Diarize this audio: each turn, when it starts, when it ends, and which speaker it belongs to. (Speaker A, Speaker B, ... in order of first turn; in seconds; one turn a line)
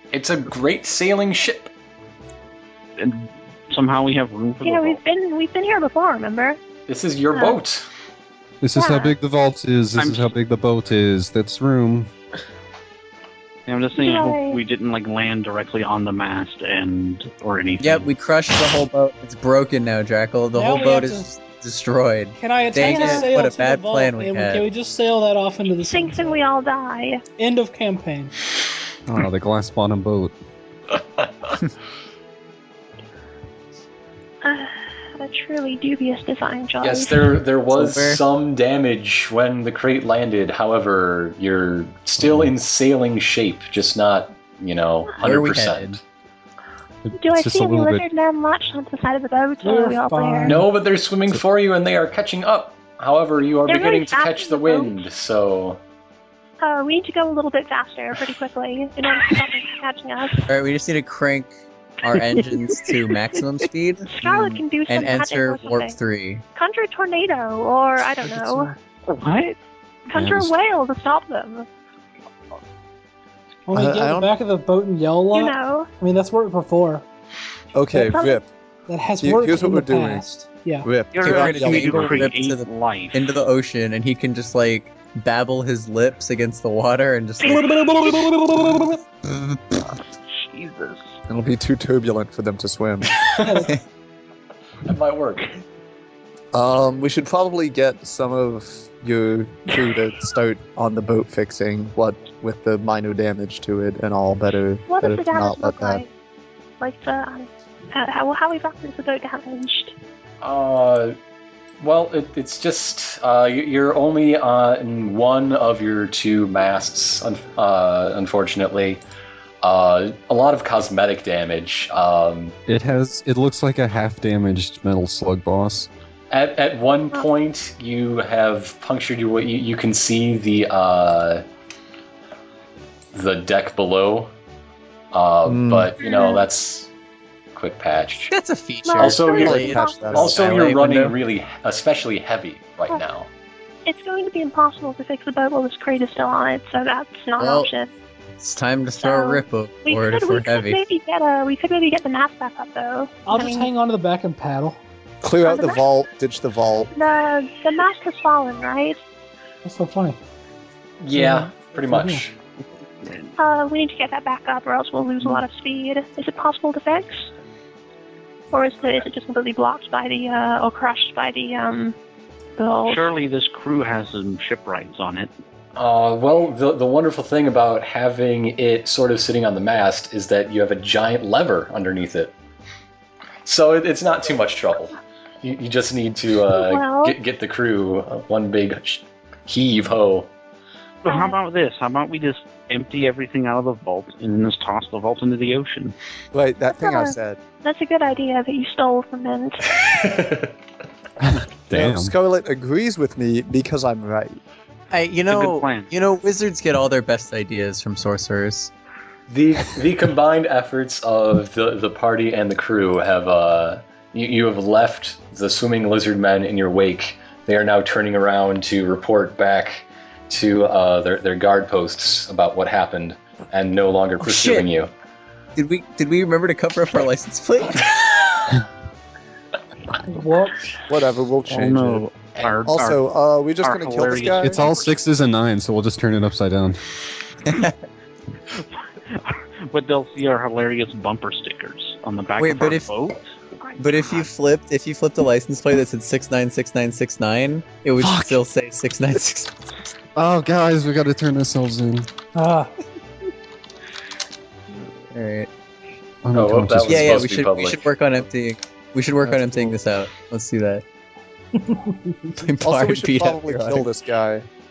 Speaker A: 0.1-1.7
Speaker B: 3.0-5.0
Speaker C: 4.6-6.6
Speaker A: 6.9-7.9
Speaker D: 8.6-12.1
Speaker C: 8.8-9.2
Speaker B: 9.9-10.3
Speaker B: 13.7-18.1
Speaker C: 14.0-14.6
Speaker E: 17.8-24.6
Speaker F: 20.6-21.3
Speaker F: 22.4-26.4
Speaker C: 22.8-23.4
Speaker C: 25.8-27.2
Speaker F: 27.4-28.3
Speaker D: 29.1-30.3
Speaker C: 34.4-37.3
Speaker A: 36.8-46.0
Speaker E: 37.7-38.2
Speaker D: 42.2-42.5
Speaker E: 45.2-46.0
Speaker D: 47.0-48.0
Speaker C: 47.2-50.6
Speaker F: 49.6-50.7
Speaker A: 50.5-55.8
Speaker C: 53.7-55.1
Speaker C: 56.6-60.5
Speaker E: 60.5-64.1
Speaker C: 64.1-66.0
Speaker G: 64.2-64.6
Speaker E: 64.9-66.4
Speaker C: 66.5-68.7
Speaker F: 68.3-68.8
Speaker B: 69.1-69.6
Speaker C: 70.1-71.7
Speaker D: 70.2-70.5
Speaker F: 73.7-77.0
Speaker G: 73.7-74.3
Speaker C: 75.3-75.9
Speaker G: 77.7-78.5
Speaker C: 77.9-78.4
Speaker F: 78.9-81.0
Speaker G: 79.2-80.2
Speaker G: 80.8-82.3
Speaker B: 81.1-83.3
Speaker E: 81.2-89.8
Speaker B: 90.3-91.2
Speaker G: 91.3-93.3
Speaker A: 93.2-93.6
Speaker F: 93.4-93.7
Speaker A: 94.8-95.6
Speaker G: 96.5-106.0
Speaker C: 104.9-106.1
Speaker C: 106.8-110.0
Speaker A: 110.4-111.2
Speaker A: 111.8-119.0
Speaker A: 119.6-122.5
Speaker D: 122.7-125.9
Speaker A: 126.3-131.4
Speaker A: 133.1-134.3
Speaker A: 135.1-136.9
Speaker G: 135.4-135.9
Speaker C: 136.0-136.4
Speaker A: 137.6-138.3
Speaker E: 138.3-141.2
Speaker C: 138.8-140.0
Speaker A: 139.0-143.3
Speaker G: 139.3-140.4
Speaker C: 143.9-147.9
Speaker E: 147.4-147.7
Speaker E: 148.4-150.8
Speaker C: 149.0-153.7
Speaker F: 153.3-154.8
Speaker G: 155.2-156.9
Speaker C: 155.4-155.8
Speaker C: 156.9-159.0
Speaker F: 159.6-160.2
Speaker A: 161.0-162.3
Speaker F: 161.1-162.2
Speaker B: 163.0-163.3
Speaker C: 163.4-167.3
Speaker C: 168.5-172.0
Speaker C: 172.6-173.1
Speaker B: 172.9-175.3
Speaker A: 175.8-182.3
Speaker A: 183.4-190.3
Speaker C: 186.5-187.2
Speaker B: 191.0-195.9
Speaker C: 191.1-191.4
Speaker G: 196.3-197.4
Speaker C: 196.8-199.7
Speaker A: 199.7-200.5
Speaker D: 201.2-202.1
Speaker G: 201.7-204.4
Speaker E: 204.9-208.7
Speaker B: 205.3-205.9
Speaker A: 209.3-224.9
Speaker E: 224.2-224.7
Speaker E: 225.6-228.0
Speaker F: 230.1-230.6
Speaker G: 230.9-232.1
Speaker B: 231.5-233.0
Speaker G: 232.7-234.7
Speaker B: 233.6-235.0
Speaker D: 234.4-236.8
Speaker E: 237.5-237.8
Speaker B: 238.5-243.2
Speaker E: 242.4-242.9
Speaker E: 243.8-249.8
Speaker D: 248.0-248.4
Speaker D: 250.2-252.1
Speaker F: 252.3-252.7
Speaker E: 255.1-255.5
Speaker D: 256.2-257.3
Speaker A: 256.3-257.9
Speaker E: 256.9-260.8
Speaker G: 259.2-259.8
Speaker E: 262.4-263.9
Speaker G: 262.6-264.5